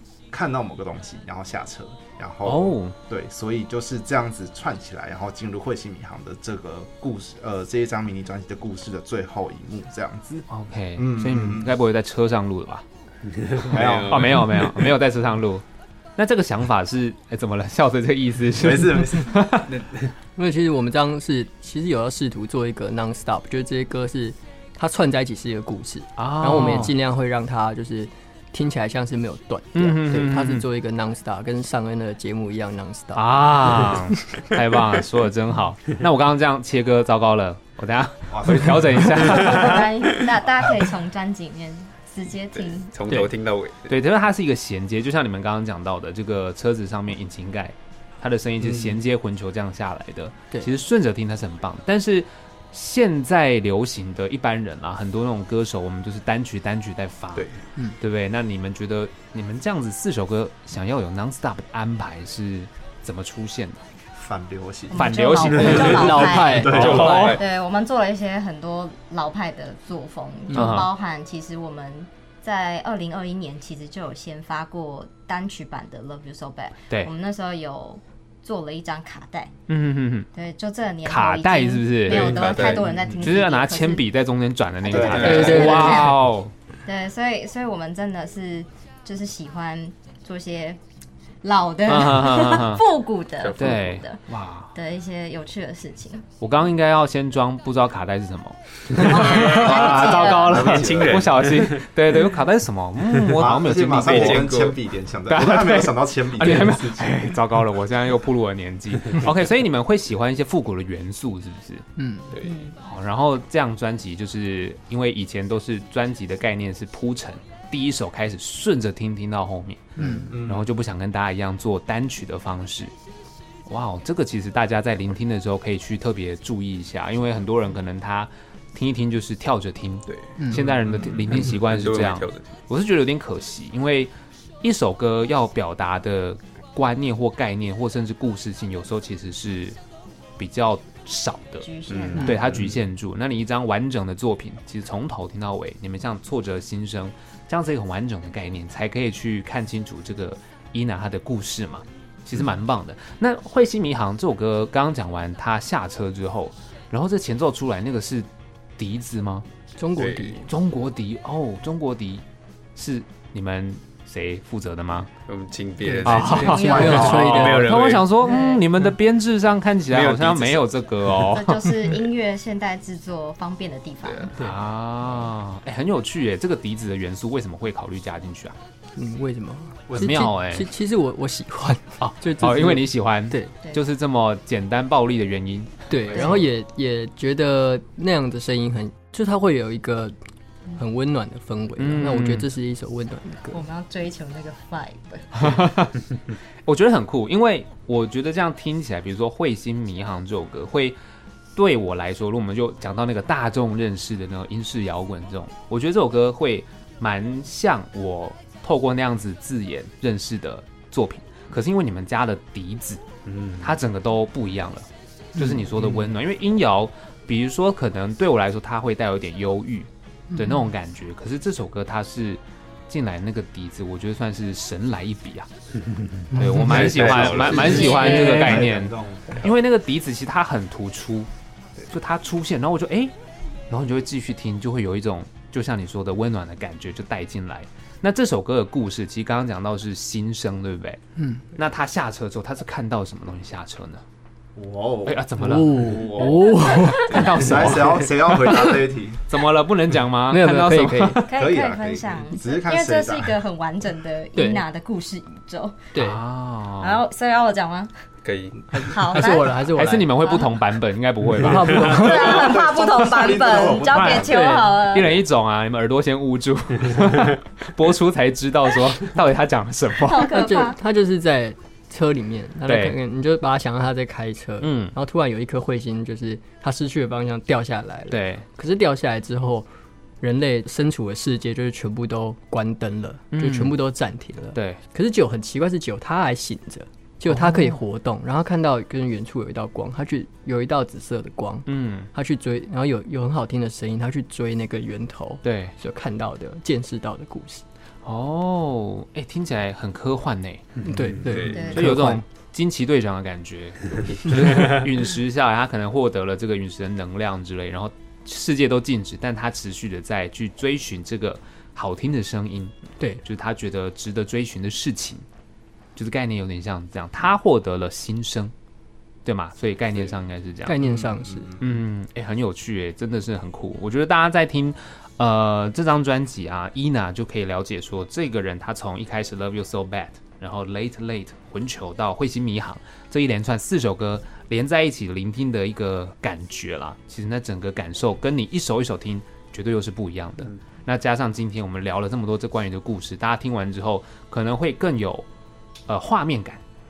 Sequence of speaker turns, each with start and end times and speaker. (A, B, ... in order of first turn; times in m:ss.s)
0:00.3-0:10.4 A
0:02.4-0:03.0 B
0:10.5-0:12.8 B
0:11.0-0:11.8 A
0:13.3-0:14.9 C
0:13.7-0:14.4 A
0:13.7-0:15.6 B
0:16.2-0:19.7 B
0:18.6-0:19.4 A
0:19.7-0:20.1 C
0:20.4-0:34.5 D
0:26.2-0:26.9 B
0:29.8-0:30.6 B
0:33.2-0:39.9 B
0:38.3-0:39.4 A
0:39.3-0:42.9 E
0:42.5-0:44.0 C
0:43.9-0:57.5 B
0:58.0-1:03.8 B
1:04.2-1:07.4 A
1:04.9-1:19.5 E
1:04.9-1:07.4 B
1:05.9-1:07.2 D
1:06.8-1:07.4 C
1:10.5-1:10.8 D
1:10.5-1:10.9 B
1:19.7-1:20.3 B
1:20.3-1:24.1 E
1:21.0-1:22.7 B
1:22.1-1:23.4 C
1:22.6-1:22.8 A
1:23.2-1:26.5 B
1:24.8-1:26.2 E
1:24.9-1:25.8 A
1:25.2-1:26.2 D
1:26.8-1:30.8 E
1:31.4-1:34.2 E
1:31.9-1:32.9 B
1:33.4-1:33.8 C
1:33.6-1:34.7 B
1:34.7-1:36.3 E
1:36.4-1:44.5 B
1:38.9-1:41.9 C
1:39.0-1:40.8 E
1:39.2-1:41.3 A
1:43.3-1:47.3 A
1:44.0-1:44.8 C
1:45.3-1:51.8 B
1:52.0-1:52.3 D
1:52.3-1:52.7 C
1:52.4-1:52.8 E
1:52.8-2:02.9 B
2:00.0-2:00.4 C
2:00.0-2:00.3 D
2:00.3-2:00.7 A
2:03.7-2:19.8 B
2:10.1-2:12.6 C
2:20.4-2:38.3 B
2:21.6-2:22.4 E
2:21.9-2:22.8 C
2:38.8-2:39.4 B
2:39.8-2:40.5 D
2:40.0-2:40.4 C
2:40.5-2:42.2 B
2:42.8-2:45.1 B
2:45.1-2:48.1 C
2:45.8-2:47.7 D
2:46.0-2:51.6 B
2:46.7-2:47.0 E
2:48.2-2:48.6 E
2:49.9-2:50.6 C
2:51.3-2:54.3 E
2:51.6-2:52.0 D
2:54.0-2:54.3 C
2:54.4-2:58.6 B
2:59.0-3:03.5 D
2:59.9-3:00.3 A
2:59.9-3:00.7 B
3:02.0-3:06.4 B
3:05.9-3:10.1 D
3:06.1-3:06.4 E
3:10.7-3:13.6 D
3:11.8-3:12.5 B
3:13.5-3:15.5 E
3:15.4-3:16.0 B
3:16.7-3:21.0 B
3:21.6-3:33.0 B
3:33.2-3:33.8 C
3:33.6-3:45.5 B
3:35.4-3:36.1 D
3:40.3-3:40.7 D
3:45.8-3:47.8 C
3:46.3-3:48.6 D
3:46.3-3:51.3 B
3:47.1-3:49.5 A
3:47.6-3:48.3 E
3:51.9-3:53.1 B
3:53.7-4:01.0 B
4:01.2-4:01.4 D
4:01.6-4:04.0 B
4:04.6-4:09.2 A
4:05.1-4:06.3 B
4:05.4-4:07.1 D
4:06.5-4:07.4 E
4:06.9-4:08.1 B
4:09.3-4:11.3 B
4:10.3-4:11.3 D
4:11.3-4:15.8 E
4:11.3-4:13.4 A
4:14.4-4:14.6 D
4:15.9-4:16.2 D
4:16.0-4:17.0 B
4:16.8-4:17.9 E
4:18.2-4:18.7 C
4:18.7-4:20.1 D
4:18.9-4:20.5 E
4:19.8-4:22.6 B
4:21.4-4:22.5 D
4:21.7-4:24.4 A
4:21.8-4:25.2 E
4:23.3-4:30.3 B
4:24.2-4:24.8 D
4:30.0-4:30.8 E
4:30.3-4:39.7 D
4:32.7-4:33.0 B
4:34.6-4:34.9 B
4:38.1-4:38.4 B
4:40.2-4:57.6 D
4:43.3-4:43.8 B
4:44.6-4:44.8 B
4:47.3-4:47.8 B
4:51.7-4:52.1 B
4:55.4-4:55.8 B
4:58.0-5:00.7 B
5:00.8-5:01.8 C
5:00.8-5:02.2 D
5:01.5-5:02.0 E
5:01.5-5:15.2 B
5:04.5-5:04.8 C
5:16.0-5:18.5 B
5:19.2-5:20.8 B
5:20.6-5:21.5 D
5:20.8-5:21.8 A
5:21.6-5:45.3 B
5:45.9-5:46.6 B